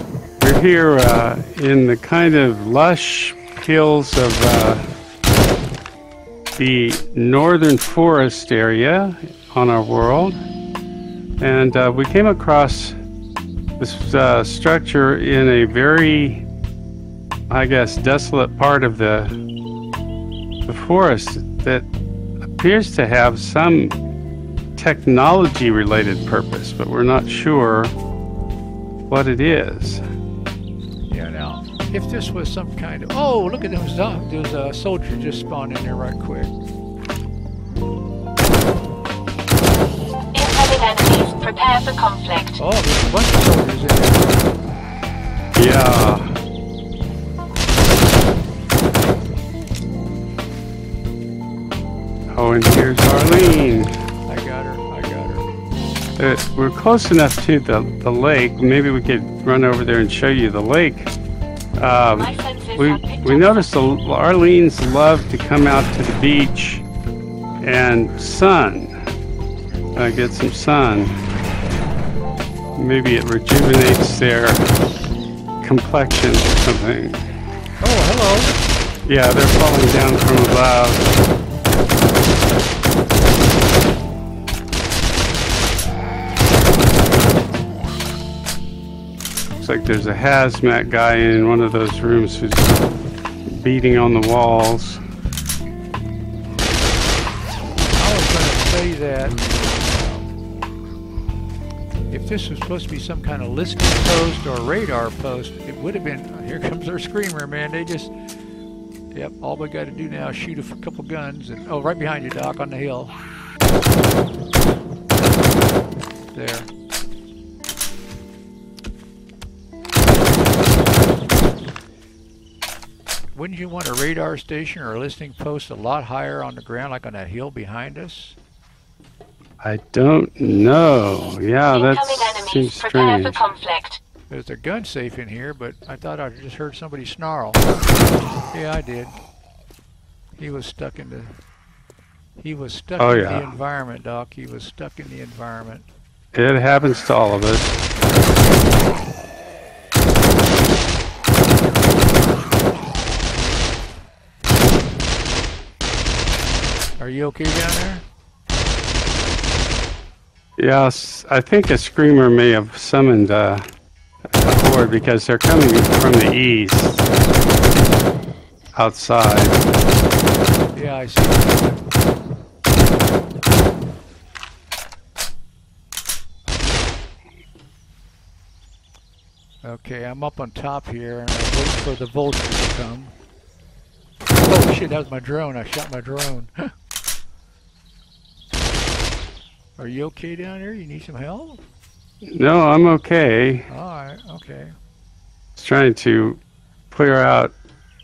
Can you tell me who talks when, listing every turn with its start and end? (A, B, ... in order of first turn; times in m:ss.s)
0:00.4-0:04.8 A
0:06.6-0:10.4 A
0:11.4-0:13.0 A
0:13.8-0:16.4 A
0:17.5-0:19.4 A
0:20.7-0:21.9 A
0:22.4-0:24.0 A
0:24.8-0:27.9 A
0:29.1-0:30.0 A
0:31.1-0:36.5 B
0:40.3-0:42.6 C
0:42.6-0:44.5 B
0:45.6-0:46.3 A
0:52.3-0:53.9 A
0:54.3-0:55.5 B
0:56.2-1:01.1 A
1:01.8-1:06.8 A
1:02.2-1:03.7 C
1:07.6-1:08.9 A
1:10.0-1:11.1 A
1:12.8-1:14.7 A
1:15.6-1:17.2 A
1:17.8-1:18.6 B
1:19.1-1:21.1 A
1:29.6-1:32.8 A
1:33.5-1:35.0 A
1:37.9-1:40.4 B
1:42.1-1:48.1 B
1:49.1-1:53.2 B
1:56.3-1:56.7 B
2:03.3-2:08.4 B
2:09.6-2:13.5 A
2:11.7-2:14.0 C
2:14.3-2:17.6 B
2:18.5-2:19.2 B
2:20.4-2:21.4 B
2:22.4-2:25.9 B
2:23.0-2:23.5 A
2:26.3-2:27.8 A
2:37.0-2:38.0 B
2:40.6-2:43.6 A
2:44.4-2:47.0 A
2:48.8-2:49.6 A
2:50.7-2:51.8 B
2:59.6-3:03.2 B
3:04.4-3:06.6 B
3:09.8-3:11.6 B
3:12.3-3:13.7 A
3:13.7-3:14.8 B
3:15.6-3:17.5 A